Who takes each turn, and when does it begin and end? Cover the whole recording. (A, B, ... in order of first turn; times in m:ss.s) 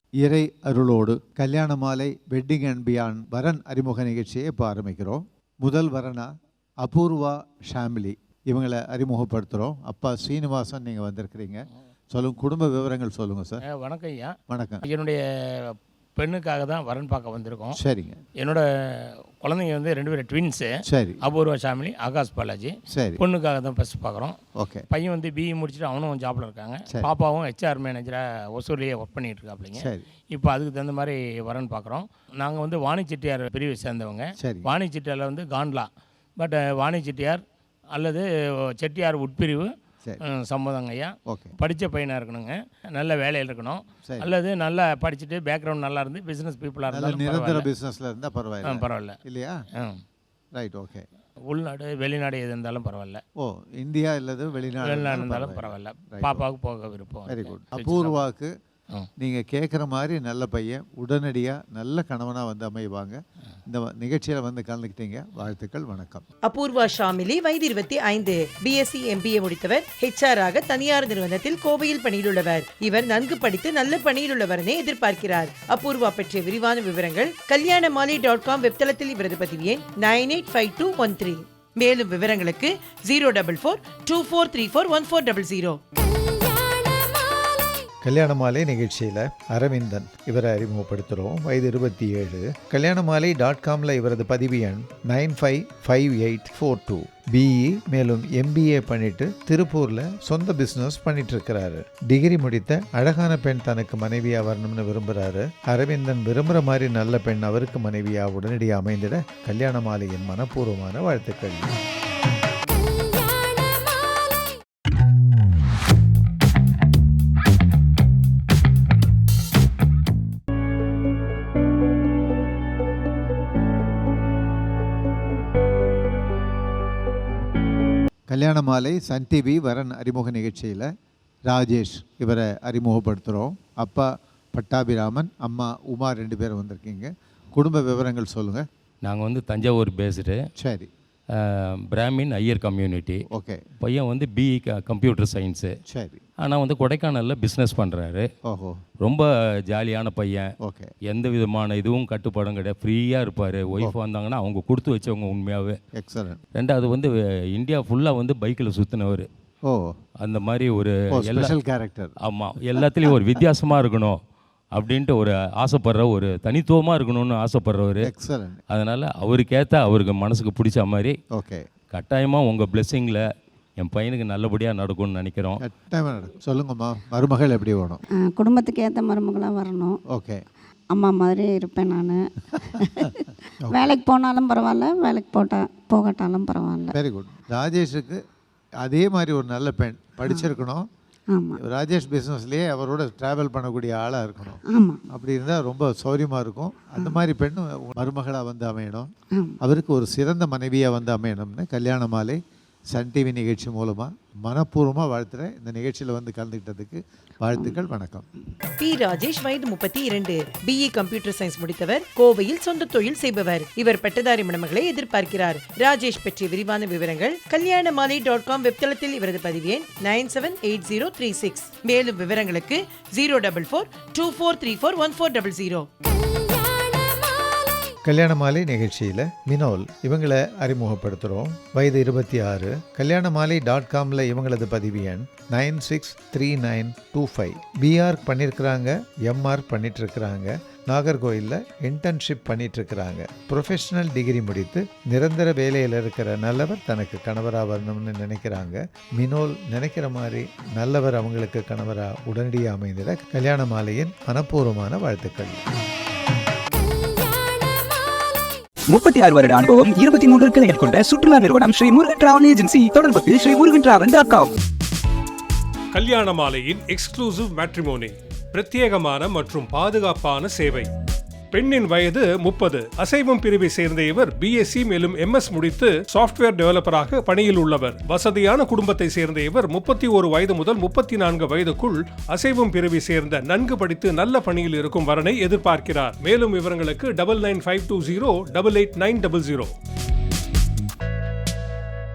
0:00.2-0:06.3 A
0:06.8-0:13.6 A
0:13.7-0:14.3 B
0:14.5-0:14.8 A
0:14.8-0:17.8 B
0:17.7-0:18.2 A
0:18.4-0:18.6 B
0:19.4-0:20.7 B
0:20.9-0:21.2 A
0:21.2-0:24.4 B
0:22.9-0:23.2 A
0:24.6-0:24.8 A
0:24.9-0:37.4 B
0:29.8-0:30.0 A
0:34.4-0:34.7 A
0:37.9-0:38.3 B
0:38.8-0:39.7 B
0:40.2-0:47.7 B
0:41.3-0:41.5 A
0:46.9-0:49.6 A
0:48.6-0:49.2 B
0:50.5-0:51.0 A
0:51.5-0:53.2 B
0:53.4-0:56.4 A
0:54.8-0:58.2 B
0:57.3-0:58.5 A
0:59.2-1:06.2 A
1:06.4-1:25.8 C
1:28.0-1:51.7 A
2:08.3-2:10.9 A
2:11.5-2:18.6 A
2:19.0-2:20.4 D
2:20.6-2:20.9 A
2:21.9-2:23.2 D
2:23.3-2:23.6 A
2:23.8-2:25.7 D
2:25.9-2:26.2 A
2:26.4-2:28.2 D
2:28.5-2:28.8 A
2:29.0-2:30.4 D
2:30.6-2:30.9 A
2:31.0-2:35.8 D
2:35.9-2:36.4 A
2:36.6-2:39.3 D
2:39.6-2:39.9 A
2:40.2-2:41.6 D
2:41.1-2:42.2 A
2:42.2-2:44.2 D
2:44.7-2:48.1 D
2:48.0-2:48.6 A
2:48.7-2:51.1 D
2:51.3-2:51.6 A
2:51.9-2:53.2 D
2:53.8-2:55.6 D
2:55.6-2:58.0 A
2:58.2-3:00.0 E
3:00.1-3:00.4 A
3:00.9-3:03.1 E
3:03.7-3:06.9 E
3:06.9-3:08.2 A
3:08.8-3:10.9 A
3:11.3-3:11.6 E
3:11.6-3:14.6 A
3:14.7-3:15.0 E
3:15.1-3:19.1 A
3:19.6-3:22.4 A
3:22.9-3:28.2 A
3:28.8-3:45.9 C
3:48.0-4:15.6 A
4:18.9-4:24.5 F
4:25.9-4:30.9 G
4:31.5-4:49.7 G